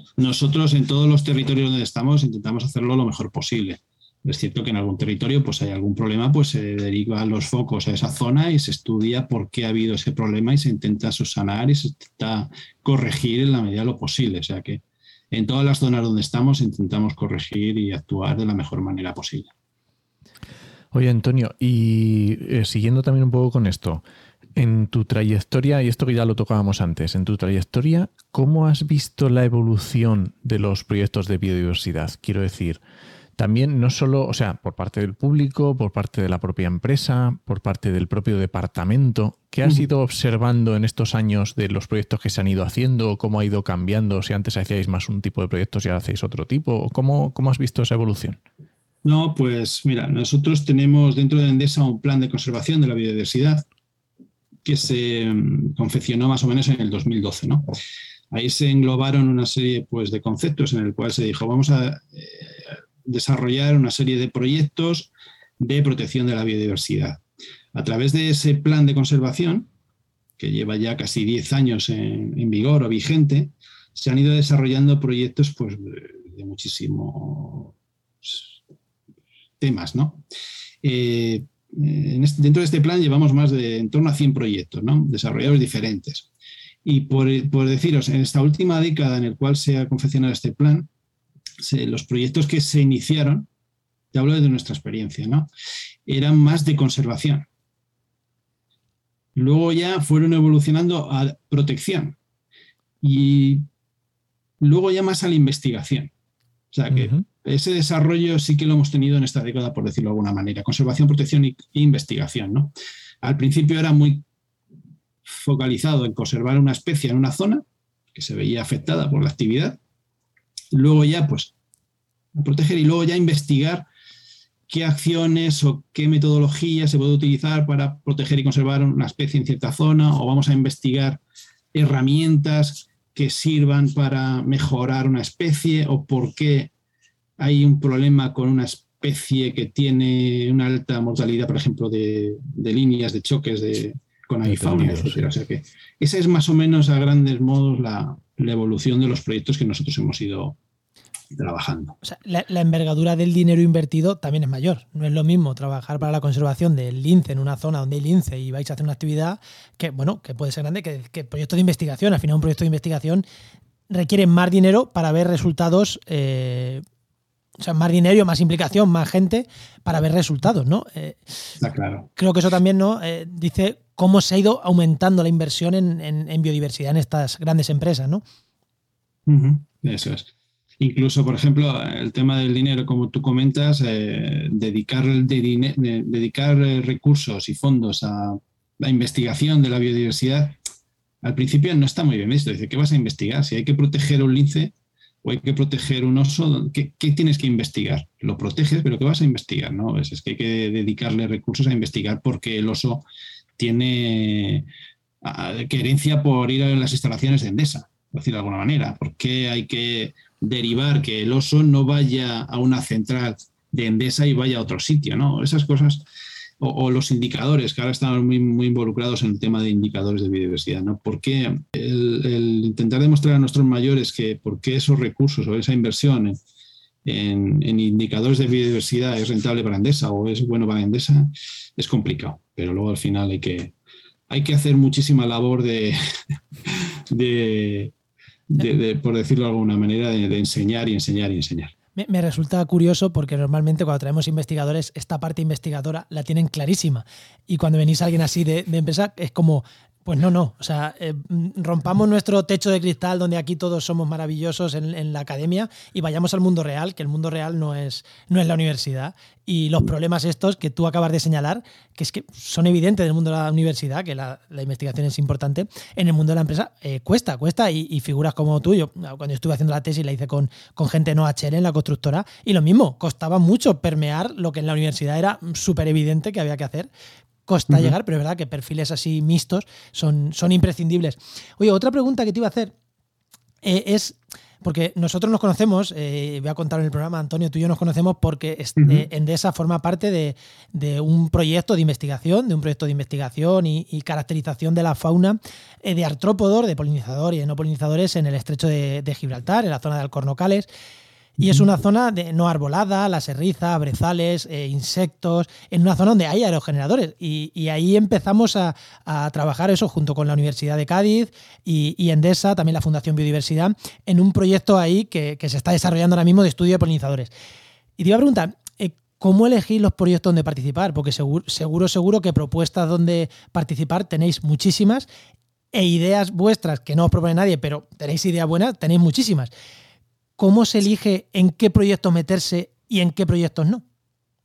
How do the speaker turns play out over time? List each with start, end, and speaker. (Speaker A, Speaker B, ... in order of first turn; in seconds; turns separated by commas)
Speaker A: 0.2-19.5, Speaker B: 20.9-24.0, Speaker B: 24.6-32.8, Speaker B: 33.4-48.4, Speaker A: 49.0-53.6, Speaker A: 54.6-57.7, Speaker A: 58.3-67.2, Speaker A: 67.8-69.7, Speaker A: 70.4-78.5, Speaker A: 79.6-80.2, Speaker A: 80.8-86.3, Speaker A: 86.8-90.9, Speaker A: 91.6-93.5, Speaker A: 94.1-95.5, Speaker A: 96.1-97.5, Speaker A: 99.4-102.2, Speaker A: 103.0-103.7, Speaker A: 104.6-106.1, Speaker A: 106.7-114.2, Speaker B: 106.9-107.2, Speaker A: 115.3-117.6, Speaker A: 118.2-119.8, Speaker A: 120.7-121.5, Speaker A: 122.3-123.9, Speaker A: 124.7-131.2, Speaker A: 131.7-136.7, Speaker A: 137.4-150.6, Speaker B: 144.4-145.2, Speaker A: 151.3-152.0, Speaker C: 152.0-163.2, Speaker C: 163.9-166.8, Speaker C: 167.6-171.2, Speaker A: 171.6-172.1, Speaker C: 172.2-178.2, Speaker A: 179.3-180.3, Speaker A: 180.8-190.6, Speaker A: 191.2-203.1, Speaker A: 203.6-204.7, Speaker A: 205.2-216.1, Speaker A: 216.6-226.4, Speaker A: 227.1-233.7, Speaker A: 234.3-236.3, Speaker A: 237.1-237.9, Speaker A: 238.5-241.7, Speaker C: 242.0-276.9, Speaker C: 277.5-282.7, Speaker A: 277.7-277.9, Speaker C: 283.6-300.7, Speaker A: 288.8-289.1, Speaker C: 301.4-317.3, Speaker A: 301.4-301.7, Speaker C: 318.0-325.1, Speaker C: 325.7-329.5, Speaker C: 330.4-333.8